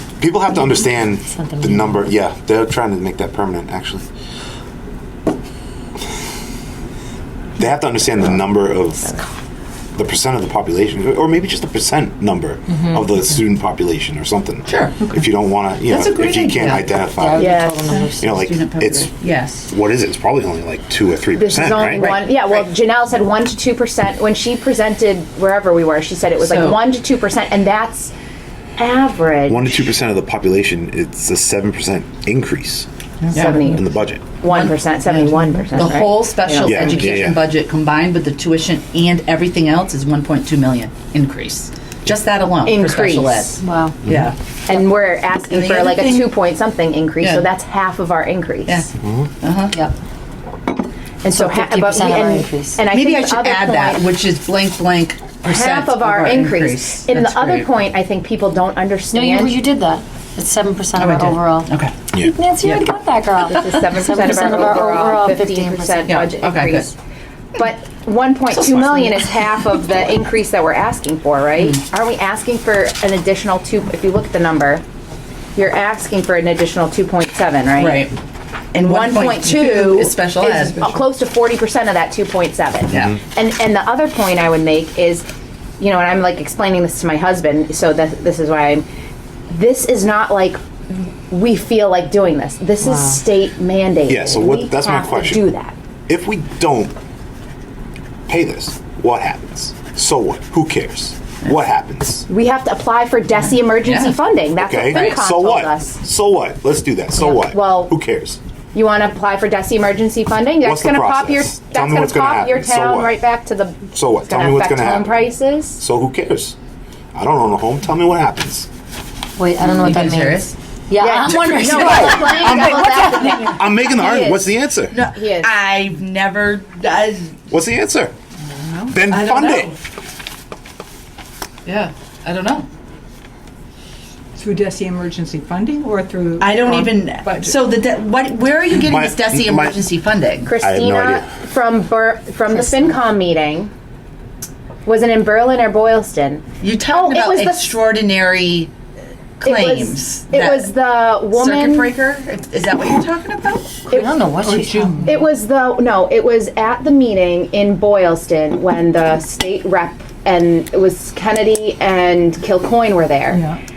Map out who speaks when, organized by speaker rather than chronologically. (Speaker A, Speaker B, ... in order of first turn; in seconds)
Speaker A: 0.2-4.0, 7.6-9.2, 9.9-19.1, 19.6-22.1, 29.5-32.9, 33.6-34.2, 36.6-37.4, 94.1-95.4, 96.1-96.9, 98.3-102.3, 104.6-108.4, 110.6-113.2, 113.9-115.2, 115.8-116.5, 117.1-118.7, 121.3-125.0, 127.5-128.1, 128.9-129.7, 138.8-139.8, 140.6-141.2
Speaker B: 0.7-2.0, 12.7-13.0, 17.2-18.6, 43.6-44.0, 51.3-52.8, 59.1-66.9, 92.8-93.2, 119.4-123.4, 142.5-142.9, 153.9-155.1
Speaker C: 14.6-15.1, 15.8-16.9, 17.9-19.7, 22.0-22.4, 26.4-26.8, 33.3-33.6, 34.5-44.4, 45.5-46.4, 47.2-47.5, 49.4-49.8, 52.9-57.7, 61.0-62.0, 62.6-62.9, 63.4-63.8, 66.0-66.9, 68.5-69.6, 77.8-78.1, 78.7-80.9, 82.9-83.2, 103.8-104.2, 104.9-105.2, 119.6-120.5, 121.5-123.4, 124.9-127.5, 129.1-129.8, 131.6-132.7, 136.4-140.5, 146.6-148.7, 149.4-153.8
Speaker D: 17.4-17.9, 21.4-28.1, 28.8-29.6, 33.3-37.1, 42.6-43.6, 44.7-48.9, 51.2-54.1, 55.4-59.6, 63.4-66.9, 67.5-74.8, 75.5-78.1, 78.8-85.2, 85.8-88.8, 89.5-95.7, 102.3-106.0, 107.2-107.9, 108.7-115.8, 121.0-124.5, 125.1-125.5, 140.4-143.7, 144.8-147.6, 149.4-151.9, 155.0-163.4
Speaker E: 33.2-33.6, 35.2-35.9, 128.4-129.0, 134.3-137.6, 154.4-155.3, 163.3-163.6